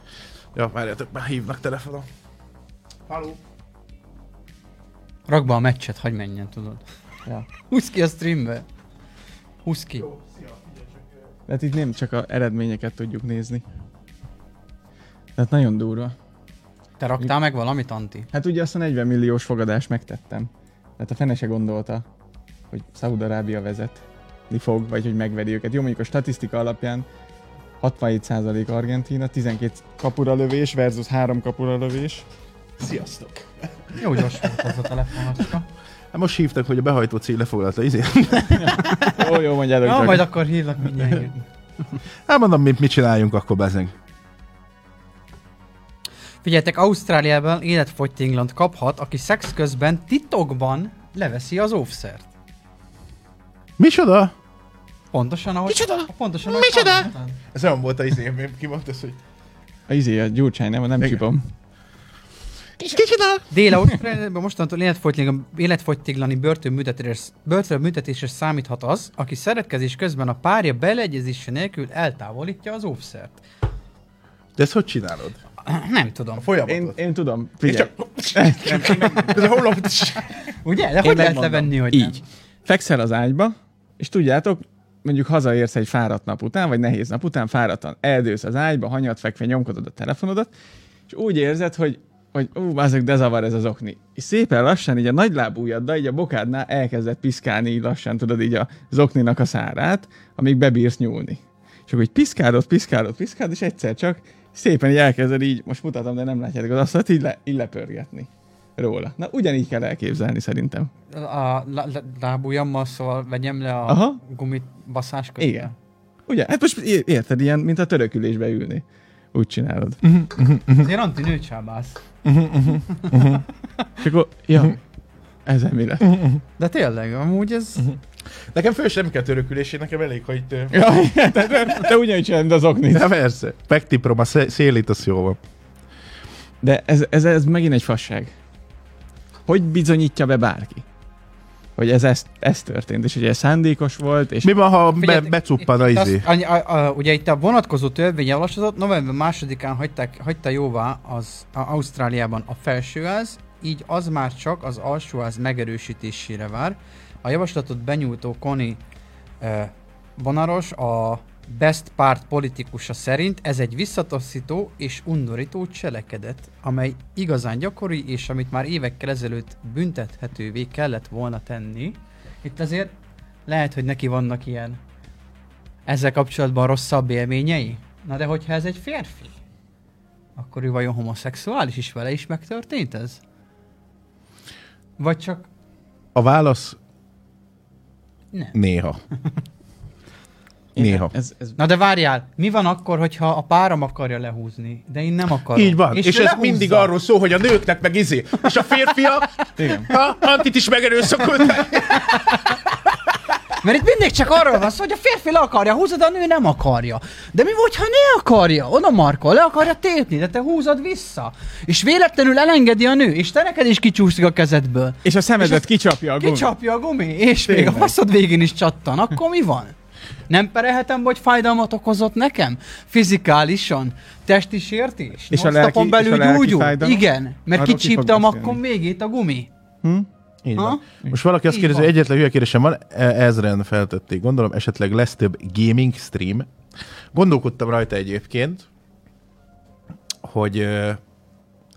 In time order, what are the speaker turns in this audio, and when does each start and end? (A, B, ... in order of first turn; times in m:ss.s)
0:00.5-0:02.1 A
0:03.1-0:03.4 A
0:05.3-0:06.8 B
0:07.6-0:08.6 B
0:09.6-0:10.1 B
0:10.0-0:10.8 A
0:11.5-0:13.6 C
0:15.4-0:16.1 C
0:17.0-0:18.3 B
0:18.3-0:22.0 C
0:22.7-0:27.0 C
0:27.8-0:32.2 C
0:32.8-0:34.7 A
0:34.0-0:35.6 B
0:36.1-0:38.8 A
0:38.6-0:40.3 C
0:38.7-0:41.4 B
0:42.3-0:43.9 A
0:46.4-0:52.3 B
0:53.8-0:54.3 A
0:55.1-0:57.3 B
0:55.7-0:59.2 A
0:59.9-1:01.4 C
1:02.8-1:03.5 A
1:03.5-1:13.4 B
1:14.6-1:15.4 A
1:15.6-1:16.4 B
1:16.4-1:17.0 A
1:16.6-1:19.5 C
1:17.6-1:20.3 A
1:20.6-1:22.2 B
1:21.0-1:30.5 C
1:31.1-1:50.9 C
1:51.1-1:55.7 B
1:53.9-1:54.2 C
1:55.4-1:55.7 C
1:56.3-2:00.0 C
2:00.0-2:00.9 A
2:00.7-2:02.0 B
2:02.2-2:03.4 A
2:02.6-2:03.4 B
2:04.0-2:04.8 C
2:05.4-2:06.2 C
2:06.1-2:06.4 A
2:06.6-2:07.8 B
2:08.5-2:10.8 A
2:10.7-2:13.1 C
2:12.9-2:15.4 A
2:16.6-2:18.3 C
2:19.4-2:20.8 C
2:21.8-2:24.5 C
2:24.4-2:26.3 A
2:25.0-2:38.8 B
2:39.4-2:52.9 B
2:53.5-2:54.8 B
2:55.8-2:59.3 B
3:00.4-3:03.2 B
3:05.0-3:05.5 B
3:06.1-3:06.8 A
3:08.5-3:09.0 A
3:10.8-3:11.6 C
3:10.8-3:11.1 A
3:11.6-3:16.9 B
3:15.5-3:22.4 A
3:19.6-3:19.9 C
3:23.6-3:35.7 B
3:35.0-3:36.5 C
3:36.2-3:39.7 B
3:37.4-3:37.9 C
3:40.3-3:49.5 B
3:45.3-3:48.6 C
3:50.4-3:56.5 A
3:51.5-3:51.9 B
3:57.1-3:58.7 A
4:00.2-4:01.0 A